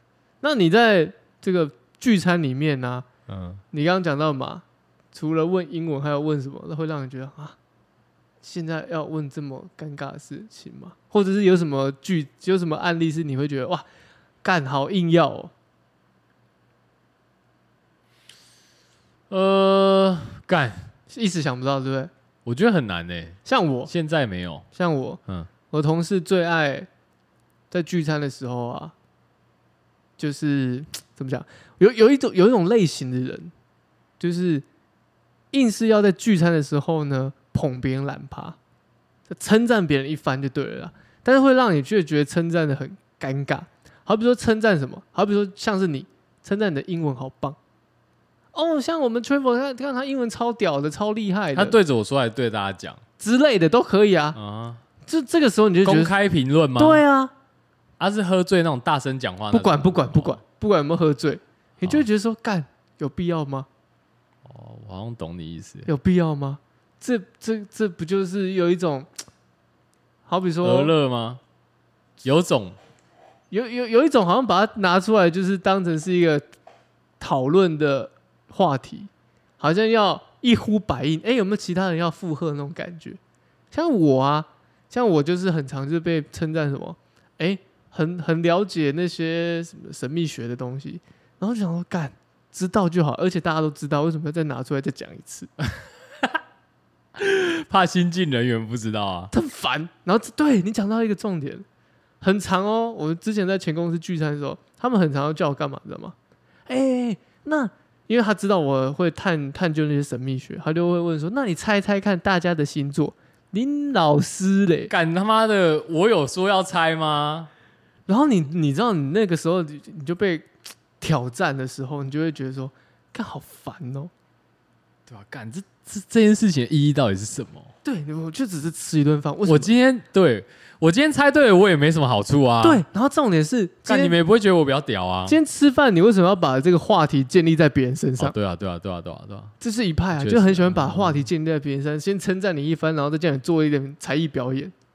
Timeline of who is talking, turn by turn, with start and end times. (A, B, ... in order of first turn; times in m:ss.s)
0:00.4-0:03.1 A
0:03.3-0:03.6 B
0:03.7-0:07.6 A
0:08.4-0:13.8 A
0:14.4-0:15.5 A
0:19.3-0:20.9 B
0:21.1-0:22.1 A
0:22.4-0:24.7 B
0:23.4-0:23.9 A
0:24.7-0:26.9 A
0:27.7-0:28.9 A
0:30.2-0:33.5 A
0:34.2-0:34.6 A
0:35.5-0:38.6 A
0:39.3-0:47.6 A
0:48.5-0:51.8 A
0:51.5-0:53.0 B
0:53.2-0:54.4 A
0:54.3-0:54.8 B
0:55.0-0:56.1 A
0:55.8-0:57.0 B
0:56.8-0:57.3 A
0:58.0-1:00.4 B
0:59.5-1:03.7 A
1:04.4-1:05.9 B
1:05.9-1:09.1 A
1:10.2-1:10.9 A
1:10.6-1:11.4 B
1:12.2-1:12.8 B
1:13.5-1:16.4 A
1:17.2-1:23.2 A
1:23.7-1:35.5 A
1:37.2-1:39.3 B
1:39.3-1:41.6 A
1:42.2-1:46.1 A
1:46.7-1:54.9 A
1:54.9-1:57.5 B
1:58.1-2:00.5 A
2:01.0-2:04.1 A
2:05.1-2:07.7 B
2:07.8-2:09.7 A
2:09.4-2:12.8 B
2:12.6-2:14.2 A
2:13.8-2:15.4 B
2:15.3-2:18.3 A
2:18.2-2:19.5 B
2:19.6-2:24.7 A
2:20.1-2:21.3 B